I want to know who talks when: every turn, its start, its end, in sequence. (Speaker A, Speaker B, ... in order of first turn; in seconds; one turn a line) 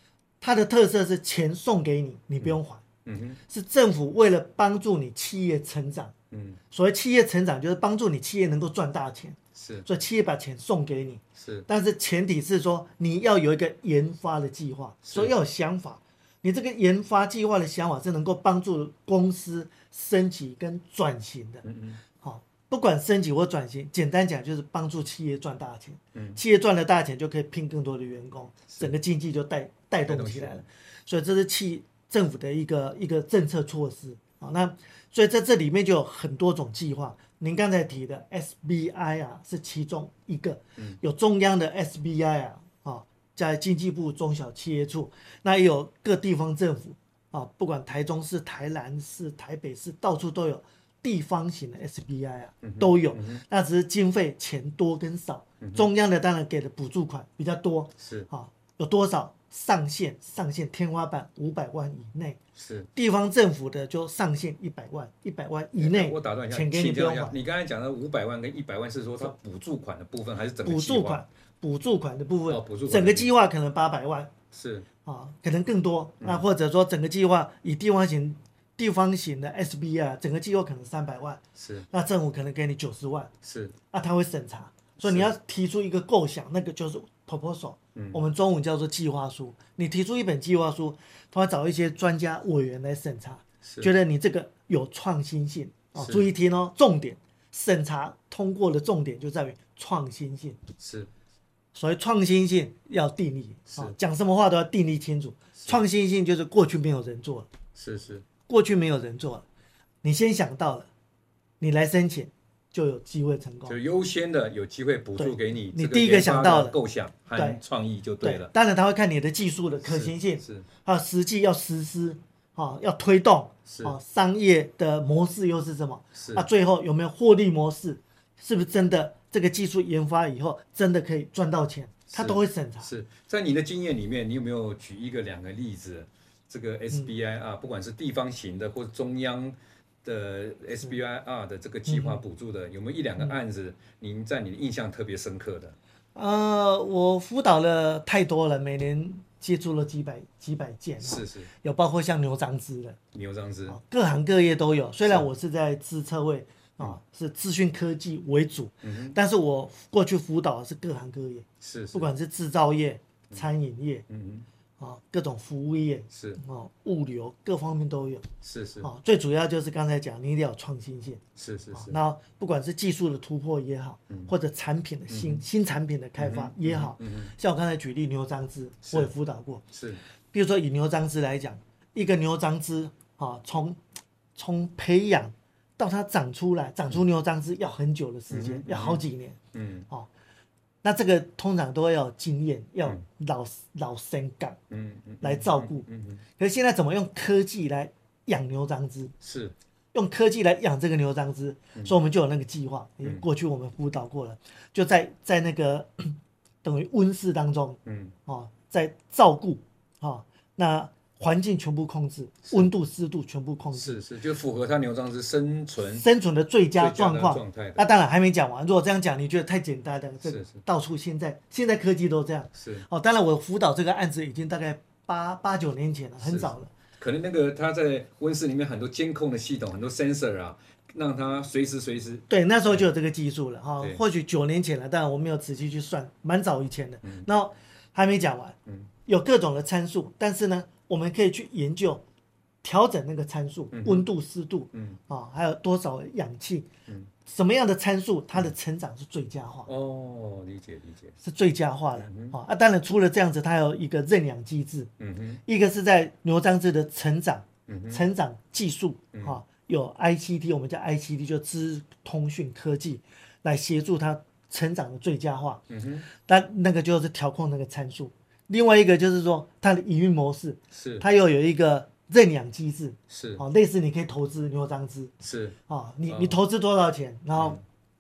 Speaker A: 0.4-2.8
Speaker B: 2.4-3.4
Speaker A: 3.5-6.1
Speaker B: 6.3-6.6
Speaker A: 6.7-21.6
Speaker B: 9.6-9.9
Speaker B: 11.4-11.7
Speaker B: 15.1-15.3
Speaker B: 21.6-22.0
Speaker A: 22.2-62.4
Speaker B: 26.1-26.4
Speaker B: 30.1-30.6
Speaker B: 52.6-53.4
Speaker B: 58.0-58.3
Speaker B: 62.6-62.9
Speaker A: 62.9-67.4
Speaker B: 65.8-71.2
Speaker A: 70.7-74.3
Speaker B: 72.5-73.3
Speaker B: 74.5-74.8
Speaker A: 75.0-83.3
Speaker B: 81.6-81.9
Speaker B: 83.4-83.7
Speaker A: 83.9-100.6
Speaker B: 85.0-85.3
Speaker B: 87.9-88.2
Speaker B: 93.6-93.9
Speaker B: 95.9-96.2
Speaker B: 100.8-101.1
Speaker A: 101.7-107.5
Speaker B: 103.7-104.0
Speaker B: 107.8-108.2
Speaker A: 108.5-109.5
Speaker A: 110.0-110.9
Speaker A: 111.6-113.8
Speaker B: 113.7-118.5
Speaker A: 115.2-116.8
Speaker A: 117.3-117.6
Speaker A: 118.2-132.9
Speaker B: 119.8-120.7
Speaker B: 123.7-124.0
Speaker B: 126.2-126.5
Speaker B: 132.1-145.8
Speaker A: 141.9-142.2
Speaker A: 146.1-153.0
Speaker B: 151.0-151.5
Speaker B: 153.1-153.8
Speaker A: 153.7-164.1
Speaker B: 158.8-159.2
Speaker B: 161.6-162.1
Speaker B: 164.1-164.4
Speaker A: 164.8-168.3
Speaker B: 166.1-166.4
Speaker B: 168.4-168.9
Speaker A: 168.8-171.2
Speaker B: 171.4-172.0
Speaker A: 171.7-179.6
Speaker B: 175.1-175.4
Speaker B: 176.2-177.3
Speaker B: 179.7-180.0
Speaker A: 180.3-183.8
Speaker A: 184.4-189.4
Speaker B: 188.3-189.0
Speaker B: 189.5-189.9
Speaker A: 190.8-194.6
Speaker B: 194.7-196.2
Speaker A: 195.2-195.8
Speaker A: 196.4-199.1
Speaker B: 199.2-199.6
Speaker A: 199.9-214.0
Speaker B: 207.9-208.1
Speaker B: 213.7-216.1
Speaker A: 215.8-226.7
Speaker B: 216.7-217.8
Speaker B: 220.2-220.6
Speaker B: 222.6-222.9
Speaker B: 226.2-232.8
Speaker A: 232.3-242.0
Speaker A: 242.6-246.7
Speaker B: 243.7-244.1
Speaker A: 247.2-249.7
Speaker B: 249.7-251.1
Speaker A: 251.2-254.9
Speaker B: 251.9-252.4
Speaker B: 255.0-255.4
Speaker A: 255.4-265.6
Speaker B: 257.7-258.0
Speaker B: 265.7-266.1
Speaker A: 266.2-275.1
Speaker B: 270.7-271.1
Speaker B: 273.1-273.4
Speaker B: 275.2-275.6
Speaker A: 275.7-277.6
Speaker B: 276.1-276.4
Speaker B: 277.3-277.6